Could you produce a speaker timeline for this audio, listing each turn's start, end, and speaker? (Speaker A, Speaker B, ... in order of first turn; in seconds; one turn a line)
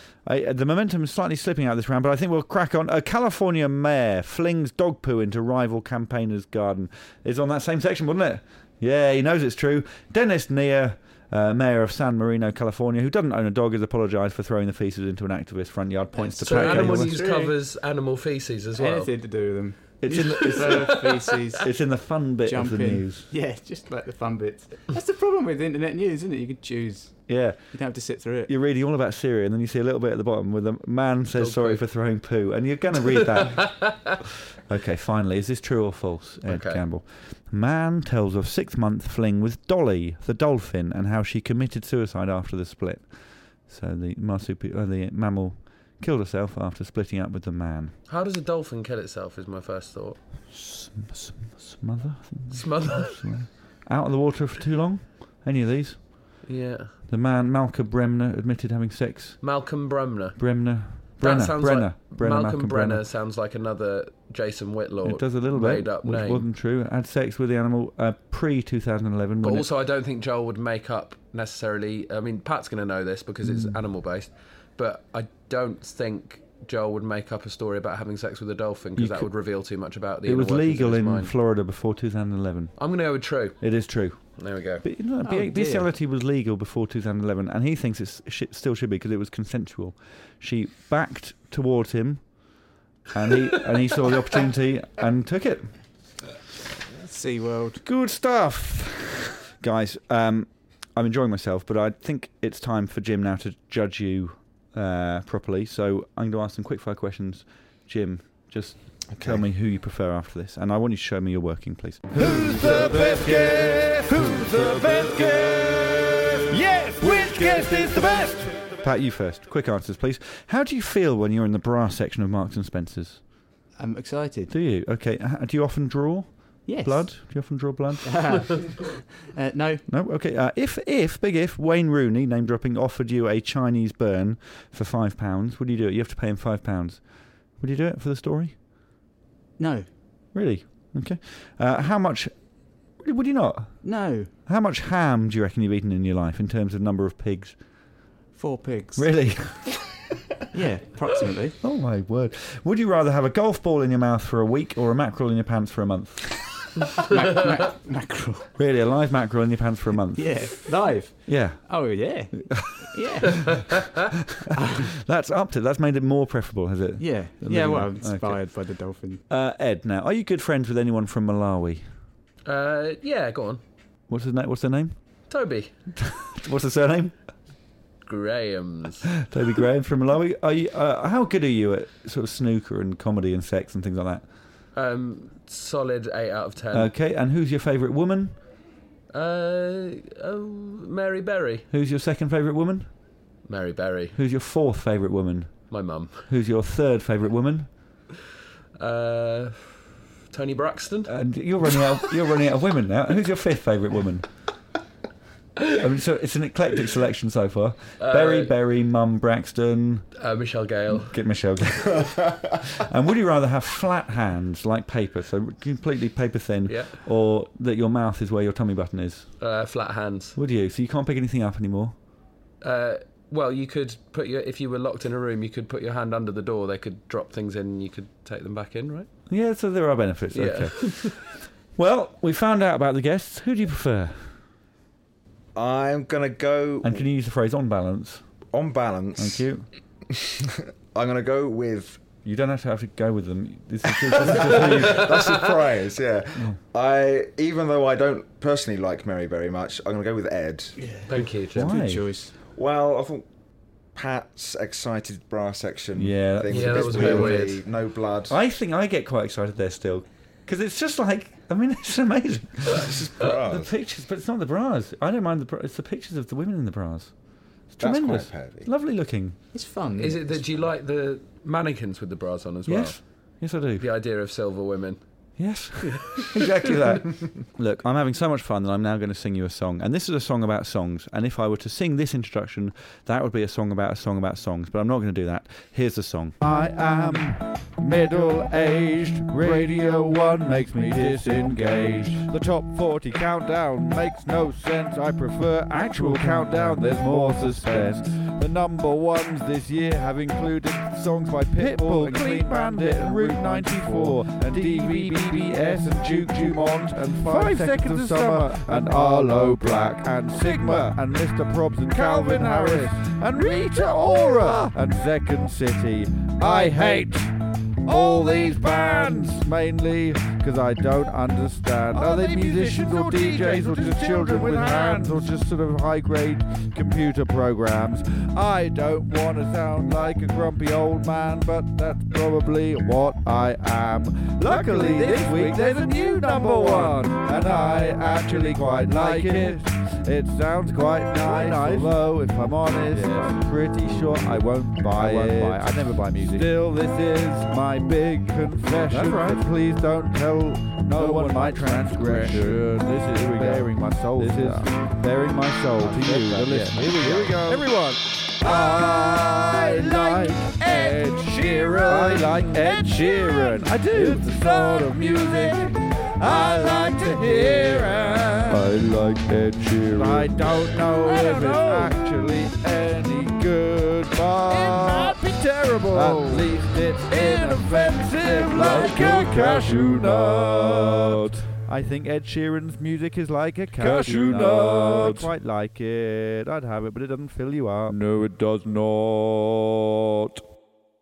Speaker A: 0.2-17.2
Speaker B: 16.2-17.5
Speaker C: 16.4-19.1
Speaker B: 18.7-21.7
Speaker A: 20.0-21.0
Speaker C: 20.1-21.3
Speaker A: 21.6-23.3
Speaker B: 22.4-28.5
Speaker A: 27.3-27.8
Speaker A: 28.5-34.1
Speaker C: 31.4-31.8
Speaker C: 33.0-34.1
Speaker A: 34.7-43.0
Speaker C: 36.5-36.8
Speaker A: 43.6-47.9
Speaker C: 48.1-50.2
Speaker A: 50.5-56.4
Speaker C: 52.5-53.4
Speaker C: 56.4-56.9
Speaker A: 57.1-59.5
Speaker C: 59.4-60.4
Speaker A: 60.4-63.0
Speaker C: 61.2-66.5
Speaker A: 65.0-69.7
Speaker C: 69.4-81.3
Speaker A: 73.4-73.8
Speaker A: 79.0-79.3
Speaker A: 80.2-82.7
Speaker C: 82.8-83.7
Speaker A: 83.6-92.3
Speaker C: 84.4-84.8
Speaker B: 85.2-85.9
Speaker A: 93.1-95.7
Speaker B: 97.0-97.8
Speaker A: 97.8-115.3
Speaker D: 109.1-109.4
Speaker E: 112.1-118.7
Speaker A: 117.0-117.9
Speaker A: 118.8-123.2
Speaker B: 123.8-124.5
Speaker A: 124.5-128.6
Speaker B: 126.7-127.3
Speaker B: 128.0-129.8
Speaker A: 129.9-138.6
Speaker B: 139.6-139.9
Speaker A: 140.3-142.3
Speaker A: 143.0-143.9
Speaker B: 143.8-144.3
Speaker A: 144.4-147.6
Speaker B: 148.3-149.1
Speaker A: 149.0-149.8
Speaker B: 150.5-151.6
Speaker A: 151.6-156.7
Speaker B: 157.1-158.5
Speaker A: 158.6-160.6
Speaker B: 160.2-163.6
Speaker A: 161.2-162.8
Speaker A: 164.4-168.5
Speaker B: 164.6-164.9
Speaker B: 167.0-169.2
Speaker A: 169.3-171.8
Speaker C: 172.4-173.6
Speaker A: 174.1-174.9
Speaker C: 175.3-175.7
Speaker A: 176.0-177.2
Speaker C: 178.0-179.2
Speaker A: 179.2-184.2
Speaker C: 184.7-186.9
Speaker A: 186.7-188.4
Speaker C: 189.1-191.7
Speaker A: 191.7-192.9
Speaker C: 193.5-194.2
Speaker A: 194.1-197.7
Speaker C: 195.7-196.3
Speaker C: 198.8-201.1
Speaker A: 201.1-204.3
Speaker A: 205.7-210.1
Speaker C: 208.0-208.5
Speaker C: 210.2-211.2
Speaker A: 210.9-219.3
Speaker C: 216.7-217.0
Speaker C: 219.4-220.4
Speaker A: 220.3-221.9
Speaker C: 222.6-229.1
Speaker A: 229.3-231.2
Speaker C: 230.3-231.2
Speaker A: 231.7-234.3
Speaker D: 235.5-237.0
Speaker A: 236.8-238.2
Speaker D: 238.5-239.5
Speaker A: 239.2-239.7
Speaker D: 240.1-242.1
Speaker A: 242.2-245.2
Speaker D: 244.2-250.8
Speaker C: 244.3-245.3
Speaker B: 250.8-252.3
Speaker C: 251.1-251.7
Speaker A: 251.5-252.1
Speaker D: 252.6-253.3
Speaker D: 253.9-258.4
Speaker A: 255.9-257.4
Speaker C: 256.5-257.6
Speaker B: 256.9-257.4
Speaker A: 258.3-267.1
Speaker D: 262.8-263.7
Speaker A: 267.7-269.4
Speaker D: 267.8-268.7
Speaker B: 269.5-270.4
Speaker C: 270.0-273.0
Speaker A: 272.6-273.9
Speaker C: 273.8-275.0
Speaker A: 275.4-286.4
Speaker C: 276.0-276.4
Speaker E: 286.4-317.3
Speaker E: 317.8-369.0
Speaker A: 341.3-341.9
Speaker A: 342.9-343.3
Speaker A: 343.9-344.4
Speaker A: 344.9-346.4
Speaker A: 348.9-349.4
Speaker A: 351.0-352.6
Speaker A: 354.2-354.7
Speaker A: 355.8-357.6
Speaker A: 361.9-362.2
Speaker A: 363.9-364.2
Speaker A: 368.5-370.3
Speaker E: 369.9-381.5
Speaker A: 374.5-375.1
Speaker A: 375.9-376.5
Speaker A: 378.4-388.0
Speaker E: 383.7-385.3
Speaker E: 387.9-390.4